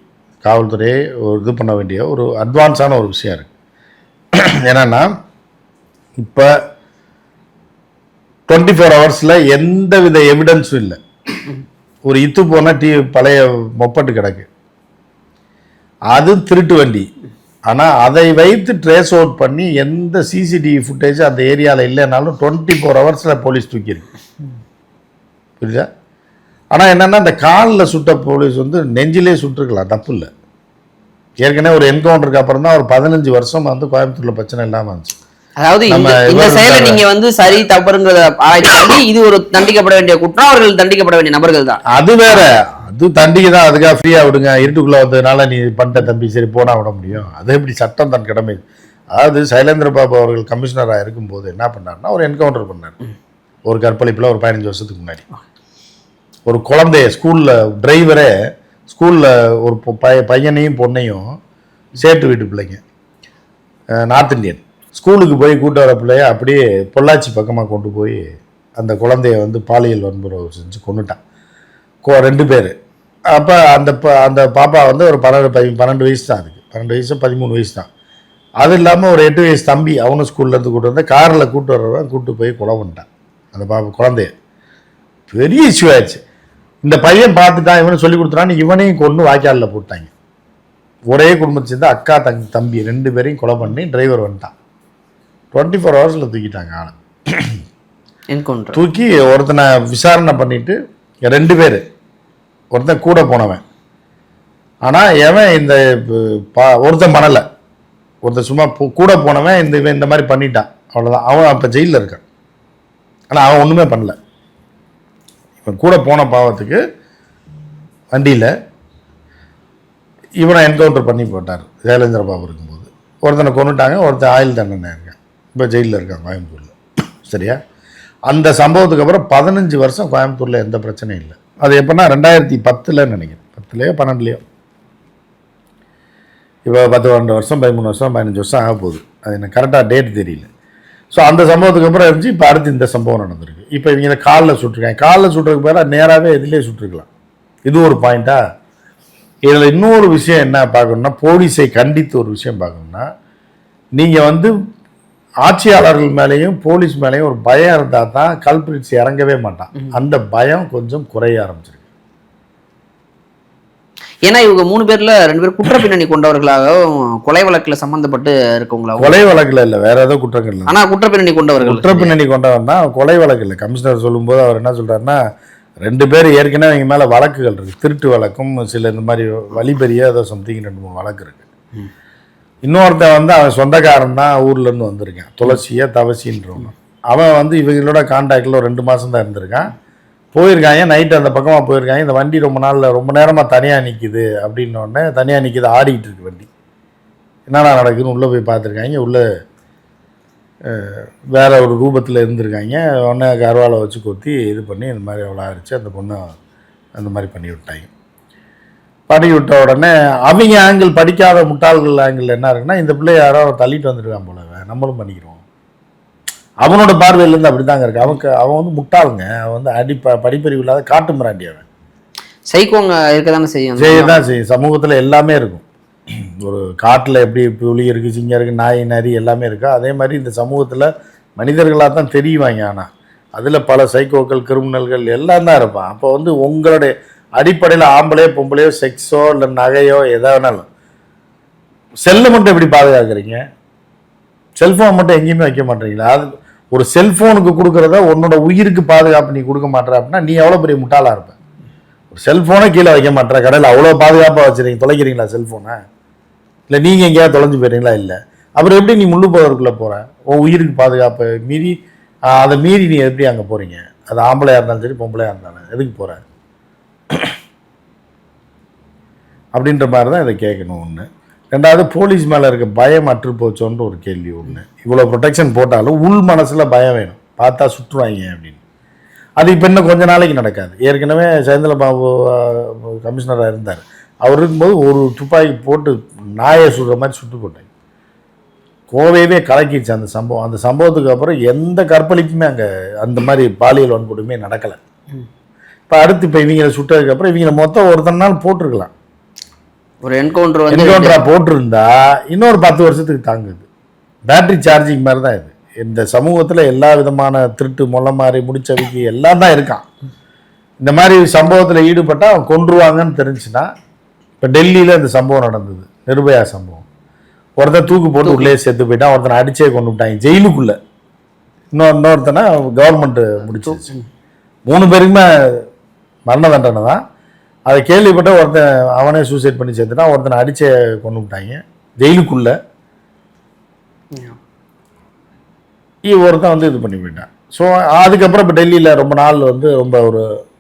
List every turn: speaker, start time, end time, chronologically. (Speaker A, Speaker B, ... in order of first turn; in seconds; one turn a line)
Speaker A: 0.4-3.5
Speaker A: 4.7-5.1
Speaker A: 6.2-6.5
Speaker A: 8.5-11.0
Speaker A: 12.1-14.5
Speaker A: 16.1-17.1
Speaker A: 17.7-24.1
Speaker A: 25.6-25.9
Speaker A: 26.7-30.3
Speaker A: 31.4-35.2
Speaker B: 35.6-41.8
Speaker A: 35.9-37.0
Speaker A: 41.9-53.0
Speaker A: 53.7-55.2
Speaker A: 56.5-58.3
Speaker A: 58.9-61.2
Speaker A: 62.0-62.8
Speaker A: 64.0-71.2
Speaker A: 72.0-72.7
Speaker A: 73.3-77.9
Speaker A: 78.6-84.3
Speaker A: 85.3-86.2
Speaker A: 86.8-90.1
Speaker A: 91.1-94.5
Speaker A: 95.5-97.6
Speaker B: 98.3-98.8
Speaker A: 98.7-100.8
Speaker A: 101.3-101.8
Speaker A: 102.7-103.6
Speaker A: 104.9-107.4
Speaker A: 108.2-112.2
Speaker A: 113.3-114.2
Speaker A: 115.6-116.8
Speaker A: 118.1-118.5
Speaker A: 120.4-127.6
Speaker A: 128.3-134.4
Speaker A: 136.7-140.5
Speaker A: 141.1-147.1
Speaker A: 147.7-148.4
Speaker A: 149.5-153.1
Speaker A: 154.0-154.5
Speaker A: 155.4-161.8
Speaker B: 164.3-169.2
Speaker A: 169.0-170.8
Speaker B: 170.7-172.1
Speaker A: 171.6-175.2
Speaker A: 175.8-181.5
Speaker A: 182.7-189.7
Speaker A: 190.3-196.5
Speaker A: 197.5-199.2
Speaker A: 200.7-206.2
Speaker A: 207.0-207.9
Speaker A: 209.1-215.4
Speaker A: 216.6-221.7
Speaker B: 222.5-224.2
Speaker A: 223.8-225.7
Speaker A: 226.4-240.7
Speaker A: 242.1-243.4
Speaker A: 244.6-251.4
Speaker A: 252.1-255.8
Speaker A: 256.7-261.8
Speaker A: 262.3-266.2
Speaker A: 269.6-278.6
Speaker A: 279.4-287.7
Speaker A: 288.9-294.8
Speaker A: 295.9-298.9
Speaker B: 300.0-301.2
Speaker A: 300.7-303.6
Speaker A: 304.3-309.9
Speaker A: 310.8-313.7
Speaker A: 314.4-316.9
Speaker A: 317.6-320.8
Speaker B: 318.2-318.5
Speaker A: 321.7-323.9
Speaker B: 323.7-324.1
Speaker A: 324.7-325.6
Speaker A: 326.3-327.0
Speaker A: 327.7-332.5
Speaker B: 334.1-334.4
Speaker A: 336.1-340.2